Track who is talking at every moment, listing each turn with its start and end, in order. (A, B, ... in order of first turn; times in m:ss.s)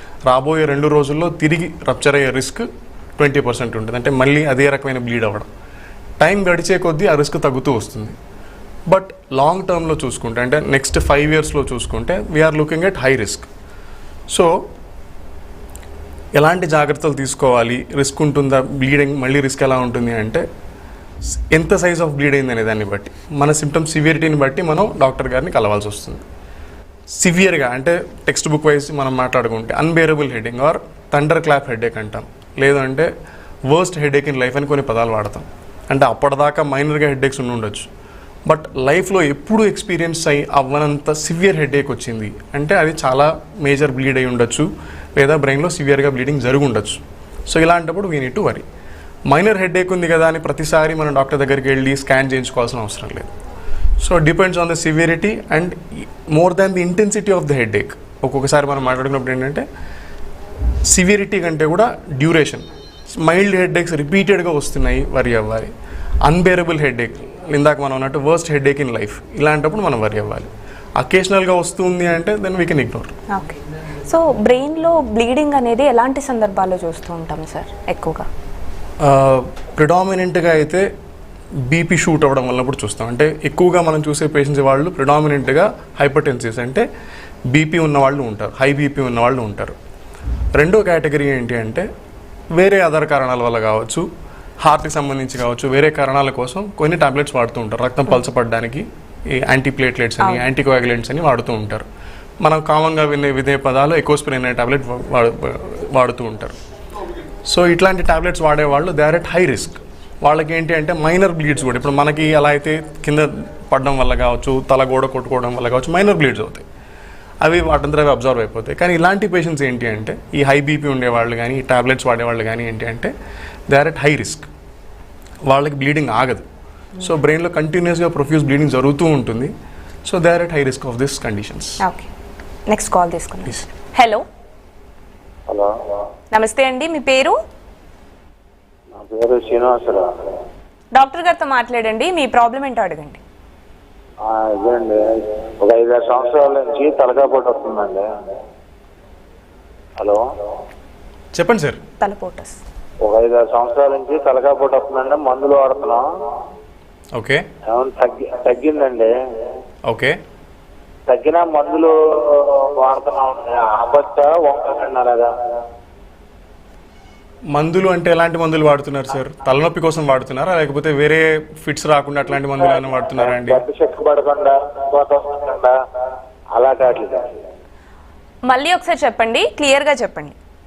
0:00.3-0:05.5 A
0:06.2-0:08.2 A
0:08.9-0:13.5 A
0:14.3-0:14.6 A
0:16.4-0:20.4 A
0:21.3-0:26.2 A
0:27.1-0:33.1 A
0:33.7-0:37.9 A
0:38.4-0:48.6 A
0:49.3-0:53.3 A
0:54.0-0:59.6 A
1:00.8-1:05.7 A
1:06.2-1:13.1 A
1:13.3-1:18.3 B
1:19.0-1:20.9 A
1:21.6-1:26.8 A
1:27.5-1:29.8 A
1:30.5-1:31.9 A
1:32.5-1:34.0 A
1:34.6-1:41.8 A
1:42.4-1:46.6 A
1:47.4-1:56.6 A
1:57.4-2:03.1 A
2:03.7-2:04.5 A
2:05.5-2:06.4 A
2:07.0-2:09.5 A
2:10.0-2:11.8 A
2:11.8-2:12.1 B
2:12.7-2:14.2 B
2:15.5-2:15.7 C
2:16.3-2:17.4 B
2:18.9-2:20.2 C
2:20.9-2:23.2 B
2:24.2-2:28.1 C
2:30.0-2:30.2 C
2:31.3-2:31.8 A
2:32.0-2:32.6 B
2:33.0-2:36.0 C
2:37.1-2:37.4 A
2:37.6-2:39.1 C
2:39.8-2:40.2 A
2:41.1-2:45.3 C
2:47.5-2:53.6 A
2:53.2-2:55.8 C
2:56.5-2:57.4 C
2:58.4-3:00.3 B